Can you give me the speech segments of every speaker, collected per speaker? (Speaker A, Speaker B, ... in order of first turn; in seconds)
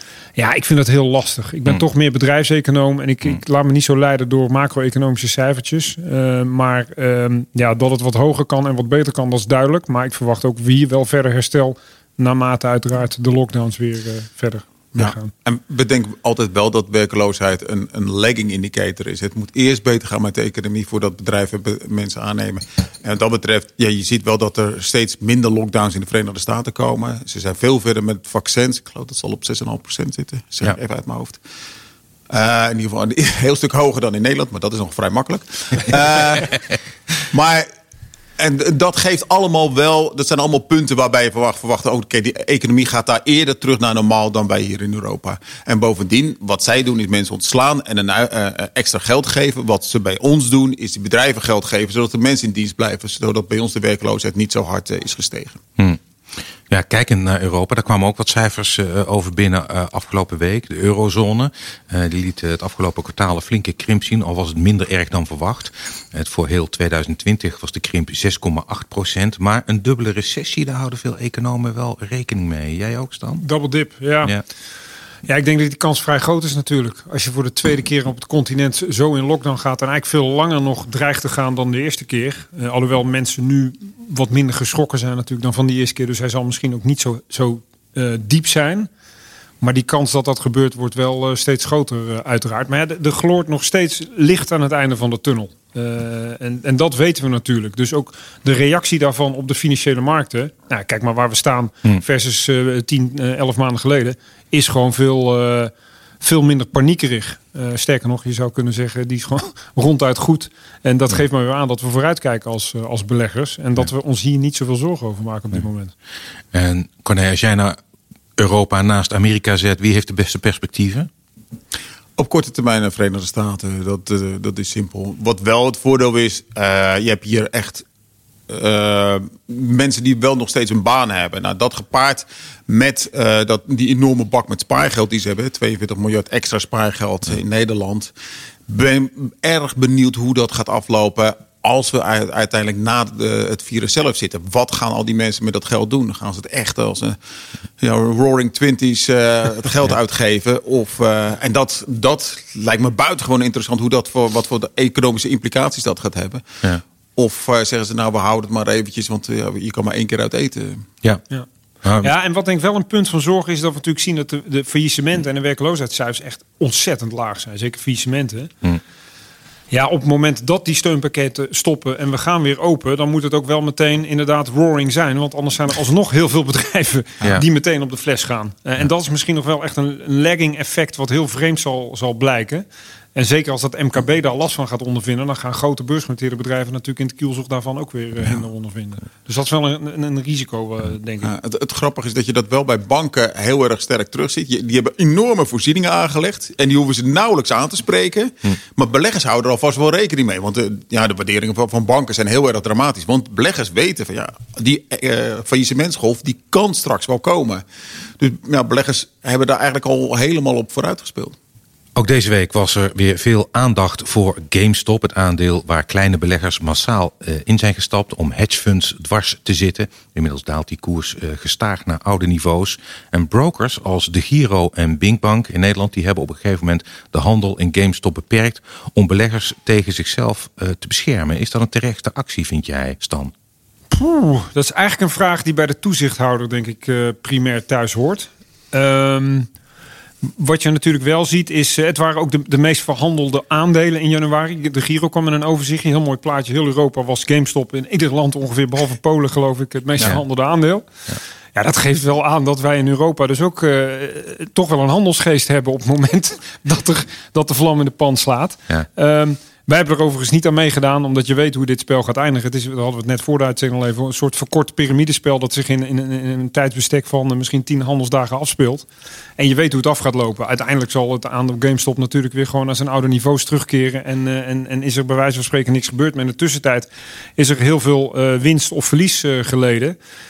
Speaker A: 0.4-15.3, 73.4-74.3, 75.3-88.9, 89.6-115.9, 162.0-168.5, 169.7-191.3, 233.9-239.5, 240.4-250.9, 251.6-268.9, 269.4-280.0
Speaker B: 15.0-31.4, 32.3-36.6, 37.3-37.7, 38.4-55.6, 122.2-127.8, 128.5-138.1, 138.7-147.2, 147.8-156.4, 157.2-160.9, 191.2-207.6, 208.2-211.4
Speaker C: 56.7-73.4, 116.5-117.8, 118.4-121.1, 161.8-162.1, 212.0-233.3